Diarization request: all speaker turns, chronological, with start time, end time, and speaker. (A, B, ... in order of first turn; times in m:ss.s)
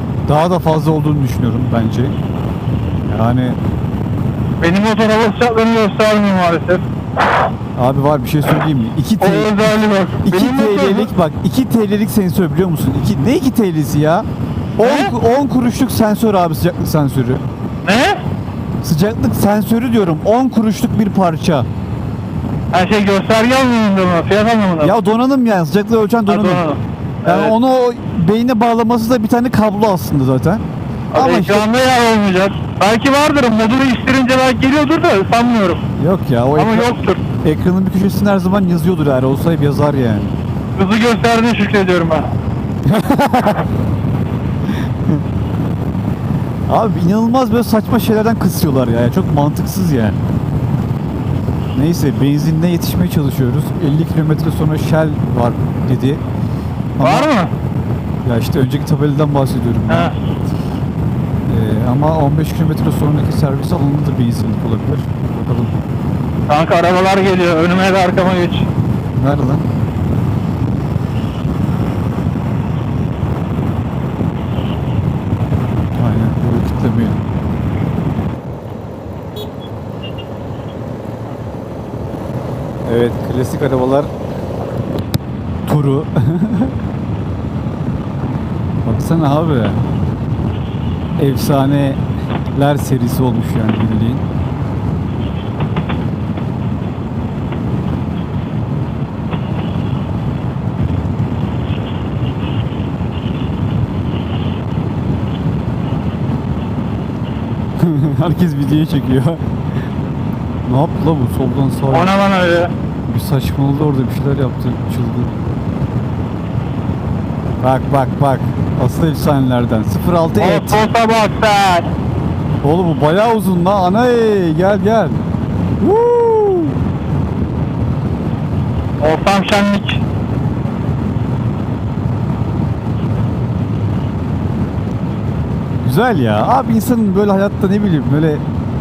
0:00.3-0:02.2 A
0:03.1-0:03.6 A
0:04.6-0:06.9 B
0:07.8-0:17.4 A
0:09.2-0:11.1 B
0:14.8-0:15.1 B
0:17.8-0:18.2 B
0:18.8-0:21.7 A
0:22.7-0:24.9 B
0:24.8-0:26.7 A
0:26.3-0:27.6 B
0:27.2-0:31.7 A
0:31.1-0:35.8 B
0:36.0-0:40.4 A
0:36.6-0:37.2 B
0:40.8-0:42.3 B
0:42.9-0:43.7 A
0:44.7-0:45.2 A
0:46.7-0:50.2 A
0:51.7-0:56.2 A
0:57.0-0:57.3 A
0:57.0-0:57.5 B
0:58.2-1:00.1 A
0:59.9-1:00.2 B
1:01.5-1:05.8 A
1:06.5-1:08.7 B
1:09.2-1:09.6 A
1:16.0-1:17.2 A
1:22.8-1:24.1 A
1:25.7-1:26.8 A
1:28.8-1:29.8 A
1:31.2-1:32.0 A
1:32.6-1:34.2 A
1:47.8-1:49.4 A
1:50.6-1:52.2 A
1:51.9-1:52.7 B
1:53.1-1:55.5 A
1:57.6-2:00.8 A
2:00.4-2:01.9 B
2:02.6-2:05.2 A
2:05.8-2:06.8 A
2:09.0-2:10.0 B
2:15.8-2:18.4 A